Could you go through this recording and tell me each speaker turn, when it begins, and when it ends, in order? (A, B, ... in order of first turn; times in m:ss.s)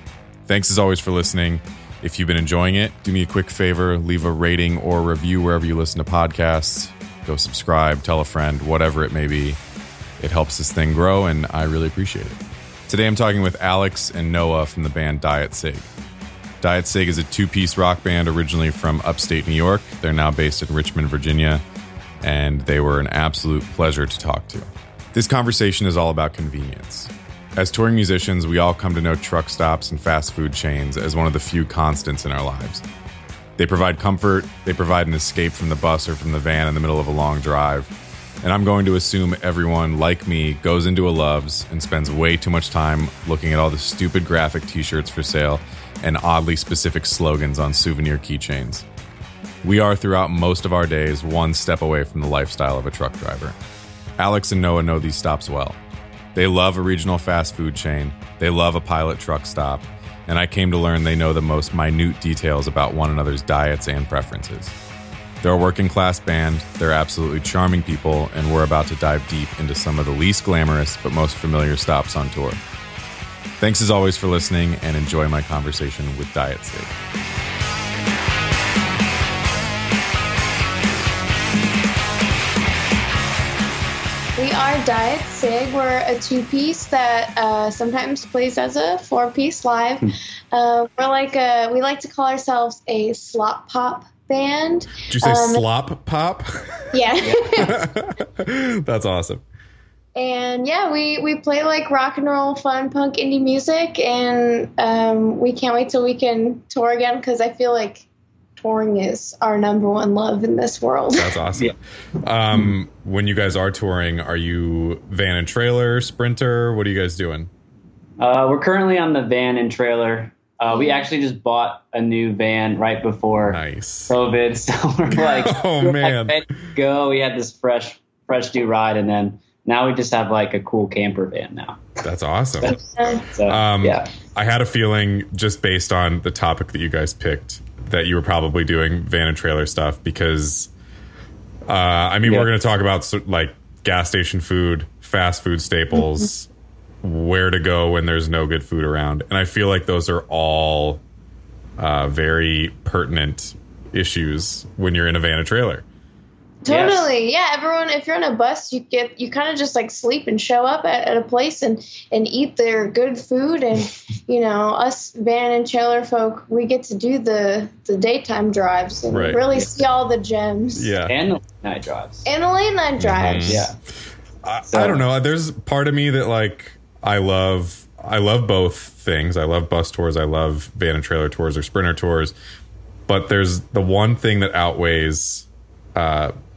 0:00.5-0:09.6 A
0:10.2-0:15.9 A
0:16.6-0:21.6 A
0:22.2-0:32.8 A
0:33.6-0:48.8 A
0:49.6-0:53.6 A
0:54.2-0:55.8 A
0:56.3-1:04.7 A
1:05.4-1:12.6 A
1:13.6-1:17.0 A
1:24.4-1:35.6 B
1:35.1-1:36.9 A
1:36.9-1:37.8 B
1:37.5-1:39.4 A
1:40.1-1:48.0 B
1:48.6-1:51.4 B
1:51.1-1:57.5 A
1:58.2-2:12.0 C
2:00.7-2:01.0 B
2:03.5-2:04.1 A
2:05.1-2:06.4 A
2:12.0-2:12.7 A
2:12.6-2:14.1 C
2:12.7-2:13.2 B
2:13.4-2:20.7 A
2:21.7-2:26.5 A
2:27.0-2:31.0 A
2:31.8-2:35.8 A
2:36.6-2:51.0 B
2:36.7-2:37.1 C
2:49.1-2:49.4 A
2:50.7-2:51.2 A
2:51.1-2:52.3 C
2:52.2-2:53.7 B
2:53.0-2:53.7 A
2:53.4-2:53.8 C
2:54.4-3:02.3 A
2:54.7-2:55.0 C
3:03.1-3:06.3 A